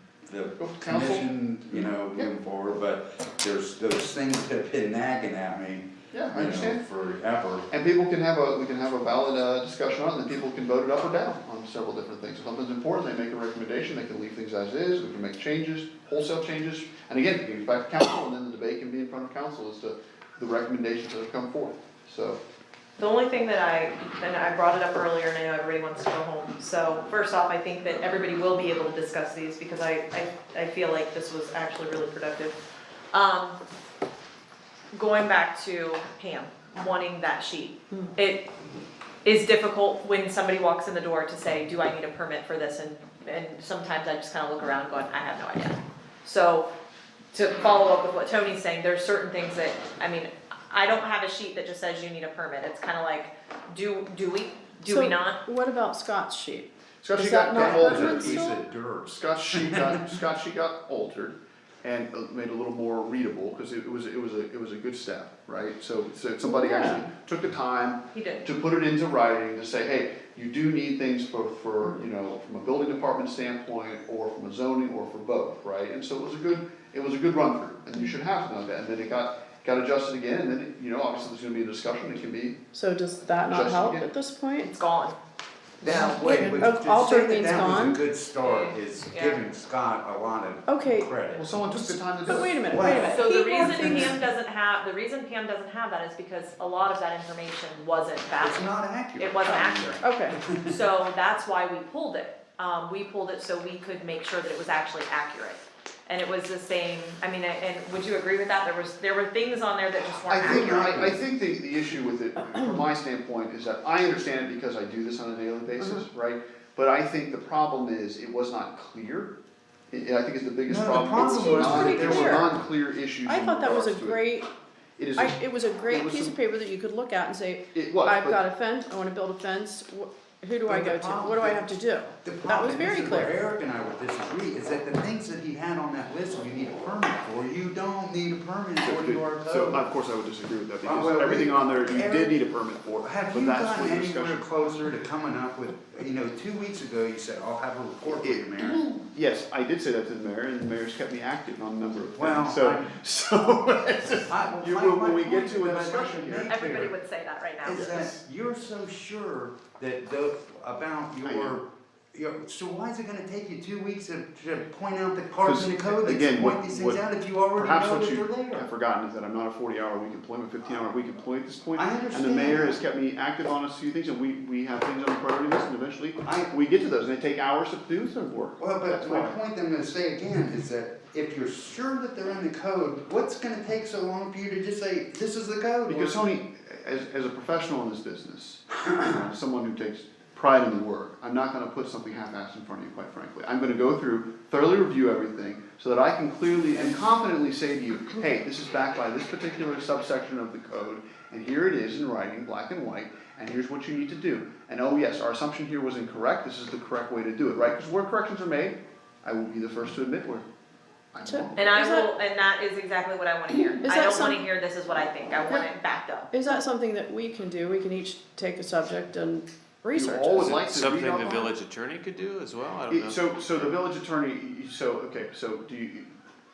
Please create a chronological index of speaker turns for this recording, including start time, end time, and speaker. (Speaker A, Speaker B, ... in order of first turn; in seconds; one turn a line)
Speaker A: 0.3-7.7
Speaker B: 0.6-1.3
Speaker B: 6.1-6.8
Speaker B: 7.7-22.4
Speaker C: 23.0-32.6
Speaker C: 33.1-33.6
Speaker C: 34.9-38.5
Speaker C: 39.2-46.7
Speaker C: 47.3-55.4
Speaker D: 54.9-58.6
Speaker B: 57.0-58.5
Speaker A: 57.5-60.2
Speaker B: 59.2-82.6
Speaker D: 66.5-66.8
Speaker C: 68.1-68.4
Speaker D: 82.7-84.7
Speaker B: 83.5-84.1
Speaker C: 84.6-85.2
Speaker A: 85.8-91.4
Speaker C: 85.8-86.6
Speaker D: 86.3-88.0
Speaker C: 88.4-89.4
Speaker D: 90.7-94.2
Speaker B: 91.4-92.9
Speaker A: 92.7-94.2
Speaker C: 93.1-111.0
Speaker A: 98.4-100.7
Speaker D: 99.5-100.4
Speaker B: 110.1-119.3
Speaker A: 110.4-111.2
Speaker B: 119.9-124.2
Speaker A: 120.7-122.4
Speaker D: 121.3-122.5
Speaker D: 123.2-124.5
Speaker B: 125.0-126.3
Speaker D: 125.2-133.4
Speaker B: 127.7-128.4
Speaker A: 130.7-131.7
Speaker A: 132.2-139.8
Speaker B: 138.8-144.5
Speaker A: 140.8-142.4
Speaker A: 143.0-148.8
Speaker B: 148.1-156.5
Speaker A: 152.2-152.9
Speaker A: 154.3-156.9
Speaker C: 156.5-158.0
Speaker A: 157.6-168.7
Speaker B: 157.7-158.2
Speaker B: 161.2-161.6
Speaker B: 165.4-167.0
Speaker B: 167.5-179.4
Speaker A: 171.8-172.8
Speaker A: 176.2-176.5
Speaker A: 178.6-186.2
Speaker B: 185.9-210.4
Speaker B: 211.1-211.6
Speaker D: 211.2-212.1
Speaker C: 211.6-216.3
Speaker D: 213.5-214.4
Speaker D: 216.3-220.6
Speaker B: 219.9-221.5
Speaker E: 220.5-223.7
Speaker B: 222.9-226.1